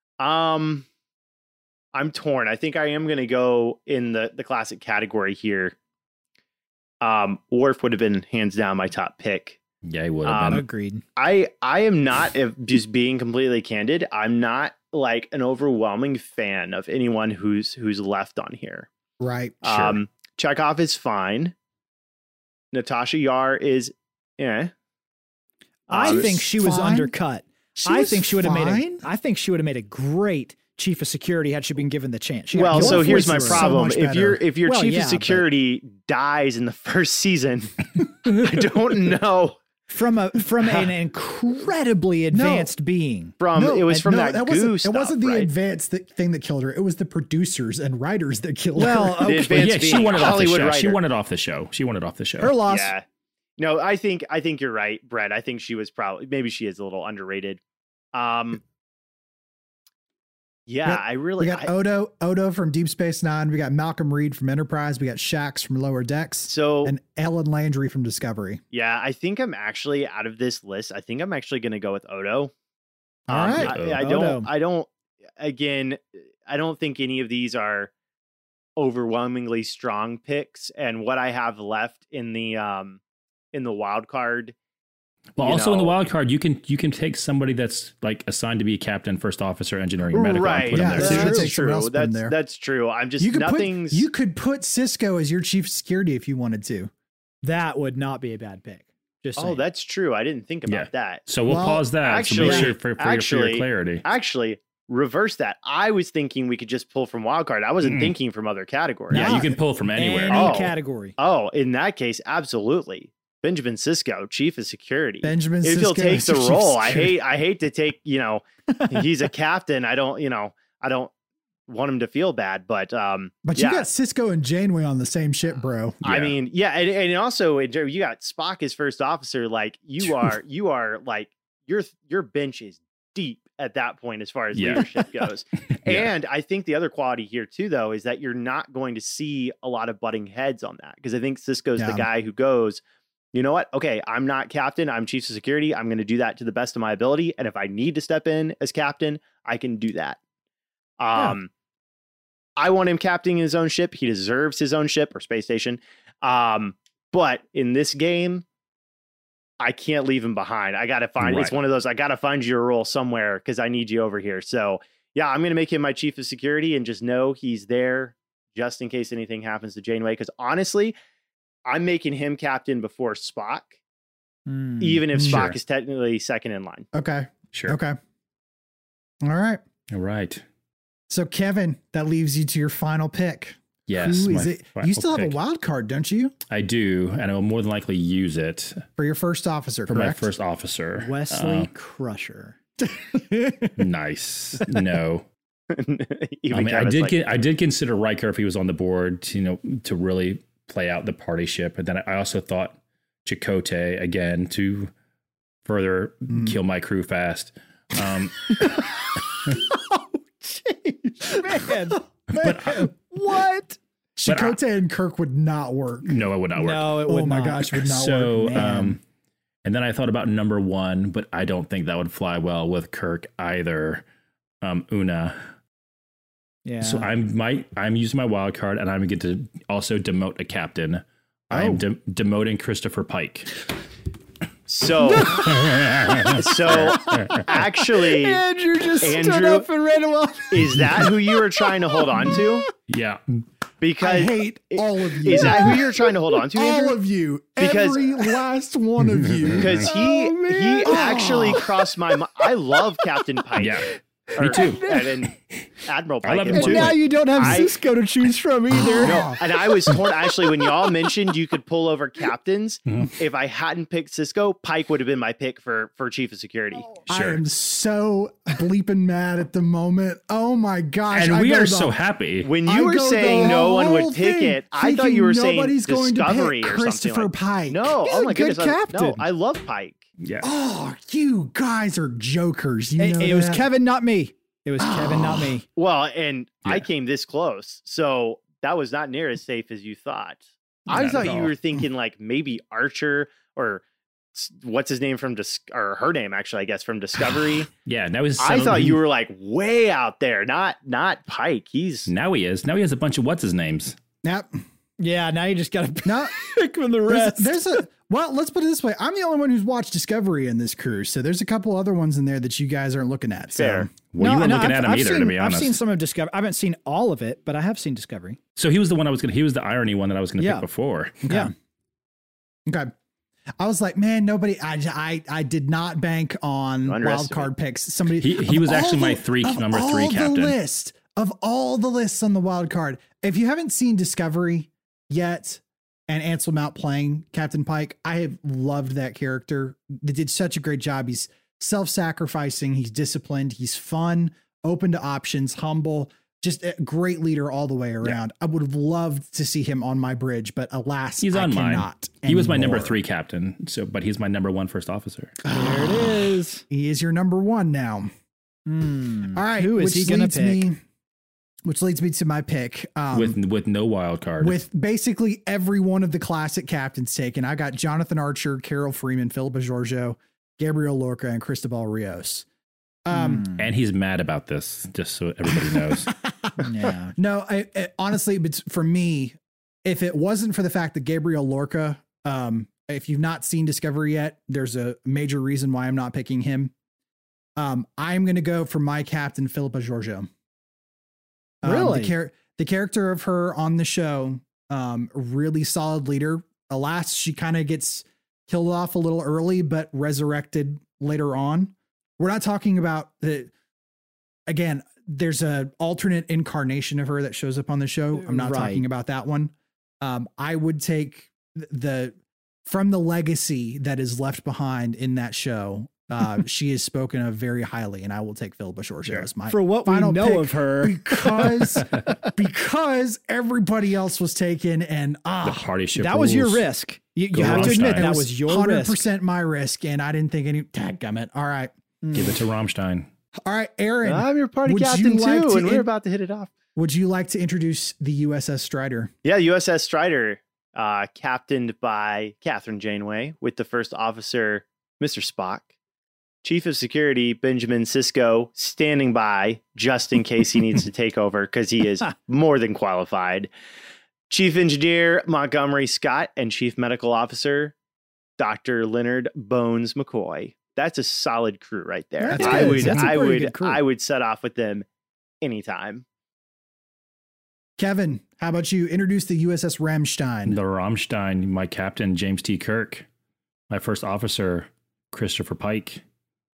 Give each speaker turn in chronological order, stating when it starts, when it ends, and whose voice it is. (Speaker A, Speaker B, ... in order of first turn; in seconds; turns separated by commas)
Speaker A: 0.2-0.8, Speaker A: 1.9-5.7, Speaker A: 7.0-9.6, Speaker B: 9.8-10.6, Speaker A: 10.2-10.6, Speaker C: 10.5-11.0, Speaker A: 11.2-18.9, Speaker D: 19.2-20.0, Speaker A: 19.6-21.5, Speaker A: 22.7-24.7, Speaker A: 25.9-26.3, Speaker C: 25.9-33.7, Speaker D: 26.0-27.1, Speaker D: 27.8-29.1, Speaker A: 32.5-39.6, Speaker D: 32.6-34.4, Speaker C: 34.6-35.4, Speaker C: 39.9-43.4, Speaker D: 42.3-42.7, Speaker A: 43.4-45.5, Speaker D: 43.5-49.6, Speaker C: 48.8-49.9, Speaker A: 49.2-51.0, Speaker B: 49.5-52.5, Speaker C: 52.4-52.9, Speaker A: 52.7-53.0, Speaker A: 53.6-57.6, Speaker A: 58.1-58.6, Speaker A: 60.7-61.7, Speaker D: 60.8-68.6, Speaker A: 66.5-66.9, Speaker A: 68.7-72.5, Speaker D: 73.3-73.8, Speaker A: 73.3-77.9, Speaker B: 73.5-74.0, Speaker C: 74.0-74.5, Speaker A: 78.8-83.0, Speaker A: 83.5-84.5, Speaker B: 85.3-91.4, Speaker A: 85.4-86.0, Speaker A: 90.1-94.1, Speaker D: 90.7-92.3, Speaker C: 91.0-91.5, Speaker D: 93.2-96.9, Speaker C: 97.4-99.6, Speaker A: 99.4-101.3, Speaker B: 100.7-104.0, Speaker D: 101.5-102.7, Speaker A: 102.0-109.3, Speaker B: 107.8-108.1, Speaker D: 109.1-109.6, Speaker B: 109.1-110.6, Speaker C: 109.9-111.2, Speaker A: 110.3-121.1, Speaker D: 115.2-117.2, Speaker A: 121.7-123.8, Speaker D: 123.4-126.0, Speaker B: 126.0-126.4, Speaker A: 126.0-142.8, Speaker B: 130.0-130.3, Speaker B: 134.5-135.1, Speaker B: 135.7-136.1, Speaker D: 141.8-142.1, Speaker A: 143.3-150.2, Speaker A: 151.0-151.5, Speaker A: 152.6-158.4, Speaker A: 159.6-170.9, Speaker B: 161.2-161.5, Speaker A: 171.7-173.8, Speaker C: 174.5-175.0, Speaker A: 174.8-176.9, Speaker D: 175.1-175.5, Speaker B: 175.2-175.6, Speaker D: 176.9-178.0, Speaker D: 179.2-179.6, Speaker B: 179.9-180.4, Speaker D: 181.1-186.3, Speaker B: 183.9-185.3, Speaker B: 186.5-188.8, Speaker D: 189.0-190.3, Speaker B: 189.9-191.7, Speaker C: 191.0-192.6, Speaker D: 192.8-193.7, Speaker B: 193.8-195.2, Speaker A: 195.7-197.1, Speaker B: 196.5-204.9, Speaker B: 205.6-208.8, Speaker D: 206.3-206.6, Speaker D: 209.5-211.7, Speaker C: 211.2-212.0, Speaker D: 212.3-212.9, Speaker B: 212.3-212.9, Speaker C: 213.0-213.8, Speaker D: 214.2-216.2, Speaker B: 214.2-214.6, Speaker B: 216.0-216.9, Speaker C: 216.6-217.8, Speaker D: 217.1-219.0, Speaker B: 217.7-219.0, Speaker C: 218.5-218.8, Speaker B: 219.6-224.0, Speaker B: 224.6-225.3, Speaker C: 226.6-227.1, Speaker B: 226.8-233.6, Speaker D: 231.5-231.8, Speaker A: 234.7-235.5, Speaker B: 235.4-237.5, Speaker A: 236.3-238.4, Speaker C: 237.7-242.4, Speaker A: 239.0-239.7, Speaker A: 240.5-242.6, Speaker B: 242.9-243.2, Speaker A: 243.8-247.0, Speaker D: 244.0-249.9, Speaker C: 245.4-245.8, Speaker A: 247.6-248.1, Speaker B: 249.3-249.7, Speaker A: 249.6-257.7, Speaker C: 249.9-251.2, Speaker D: 250.8-251.7, Speaker B: 253.6-253.9, Speaker B: 254.4-254.9, Speaker C: 254.5-255.2, Speaker B: 256.2-257.6, Speaker C: 256.5-259.2, Speaker D: 258.8-259.4, Speaker A: 259.0-266.9, Speaker B: 267.1-267.4, Speaker D: 267.1-271.9, Speaker B: 271.1-272.5, Speaker A: 272.4-280.0, Speaker D: 272.6-278.5, Speaker C: 278.1-279.2, Speaker B: 280.2-280.5, Speaker D: 280.4-283.6, Speaker C: 283.0-285.6, Speaker D: 284.8-285.5, Speaker A: 285.7-293.8, Speaker B: 290.9-291.5, Speaker A: 294.3-297.7, Speaker B: 297.8-299.0, Speaker A: 298.4-302.1, Speaker B: 302.1-304.0, Speaker D: 304.2-304.6, Speaker C: 305.0-307.8, Speaker D: 306.0-306.5, Speaker D: 307.1-313.9, Speaker A: 313.5-313.9, Speaker B: 314.1-315.8, Speaker C: 314.2-318.4, Speaker B: 318.6-321.2, Speaker C: 320.4-320.6, Speaker D: 321.2-321.5, Speaker C: 321.3-321.5, Speaker D: 322.7-322.9, Speaker D: 323.6-353.0, Speaker A: 326.9-327.5, Speaker B: 328.1-330.5, Speaker B: 351.2-355.4, Speaker D: 355.4-358.1, Speaker C: 355.5-356.6, Speaker C: 358.7-360.7, Speaker D: 359.3-360.8, Speaker D: 361.6-363.4, Speaker B: 363.1-364.6, Speaker D: 364.4-372.4, Speaker D: 373.0-373.5, Speaker C: 373.1-373.6, Speaker B: 373.6-376.1, Speaker D: 375.6-386.7, Speaker C: 376.6-377.1, Speaker D: 387.6-390.3, Speaker D: 391.6-403.5, Speaker C: 391.6-392.1, Speaker D: 404.5-425.7, Speaker C: 408.2-408.8, Speaker C: 419.5-421.8, Speaker B: 425.4-426.6, Speaker C: 425.9-429.1, Speaker B: 427.3-428.1, Speaker D: 427.4-431.7, Speaker C: 432.0-432.4, Speaker B: 432.1-433.1, Speaker D: 433.4-435.9, Speaker A: 434.0-436.5, Speaker D: 436.8-439.1, Speaker A: 439.2-445.7, Speaker A: 446.4-453.5, Speaker A: 454.3-457.7, Speaker A: 458.4-464.9, Speaker C: 462.2-463.8, Speaker D: 462.3-463.4, Speaker A: 465.4-466.0, Speaker D: 467.8-470.6, Speaker B: 470.5-473.1, Speaker B: 473.7-476.0